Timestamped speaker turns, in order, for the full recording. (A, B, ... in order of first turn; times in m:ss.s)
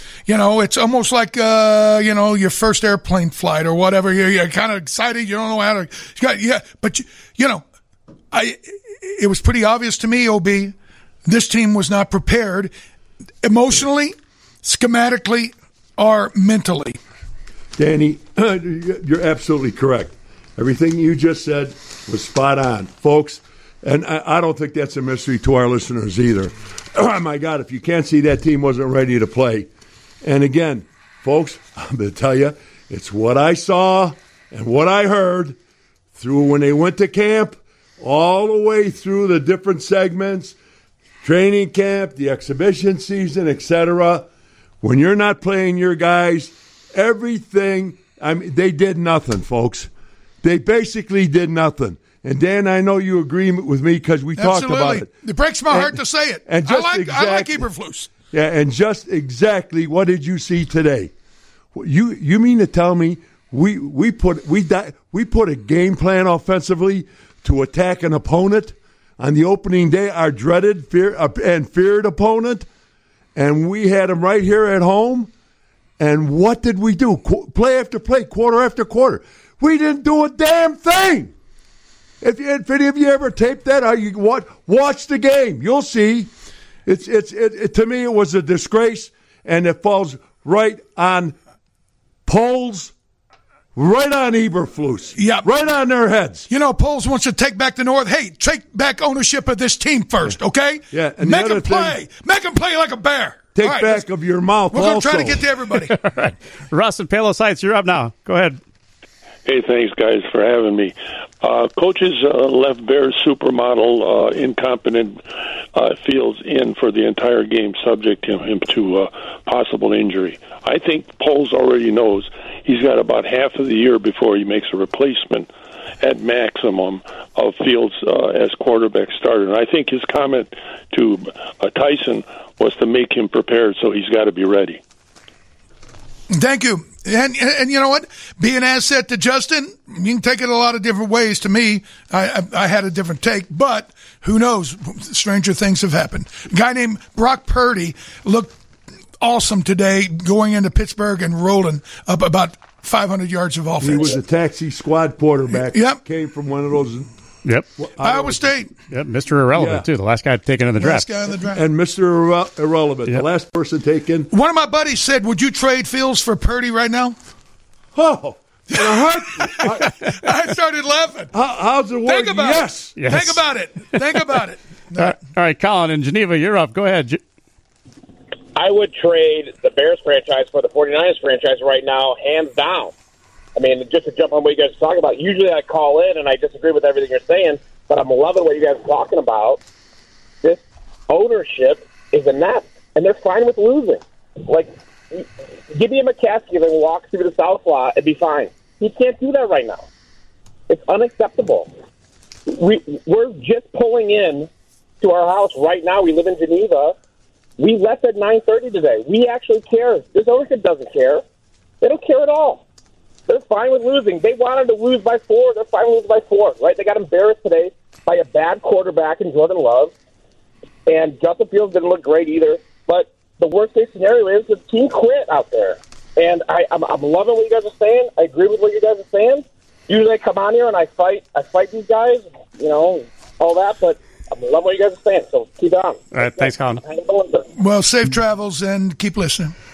0:00.3-0:07.6 A
0:08.3-0:10.7 A
0:11.3-0:12.7 A
0:13.4-0:17.0 A
0:17.8-0:29.7 B
0:30.2-0:35.6 B
0:36.2-0:40.6 B
0:41.2-0:44.3 B
0:44.8-0:49.9 B
0:50.4-0:55.1 B
0:54.4-0:58.1 A
0:55.7-0:57.7 B
0:58.3-1:01.1 B
1:01.7-1:12.7 B
1:13.4-1:15.3 B
1:16.0-1:21.3 B
1:22.2-1:26.3 B
1:26.9-1:31.4 B
1:32.3-1:32.9 B
1:33.8-1:36.5 B
1:35.2-1:35.5 A
1:36.5-1:44.0 A
1:40.9-1:42.0 B
1:43.6-1:45.4 B
1:44.7-1:45.9 A
1:45.9-1:48.6 C
1:49.5-2:05.5 D
2:06.0-2:14.8 D
2:16.3-2:28.6 A
2:29.2-2:34.2 A
2:33.8-2:37.1 B
2:35.6-2:36.0 A
2:37.8-2:38.5 B
2:38.0-2:38.7 A
2:38.9-2:41.1 C
2:39.5-2:39.9 B
2:40.8-2:41.6 A
2:41.5-2:44.3 B
2:44.3-2:47.2 A
2:48.0-2:50.1 B
2:48.7-2:51.3 A
2:51.3-2:53.0 B
2:52.0-2:55.2 A
2:53.0-2:54.0 C
2:55.0-2:57.2 C
2:58.6-3:02.9 E
3:03.6-3:09.6 E
3:10.4-3:19.9 E
3:20.7-3:21.8 E
3:22.5-3:24.5 E
3:25.0-3:27.0 E
3:27.6-3:31.2 E
3:31.8-3:32.6 E
3:33.3-3:39.9 E
3:40.9-3:57.5 E
3:56.1-3:56.8 C
3:57.6-3:59.5 A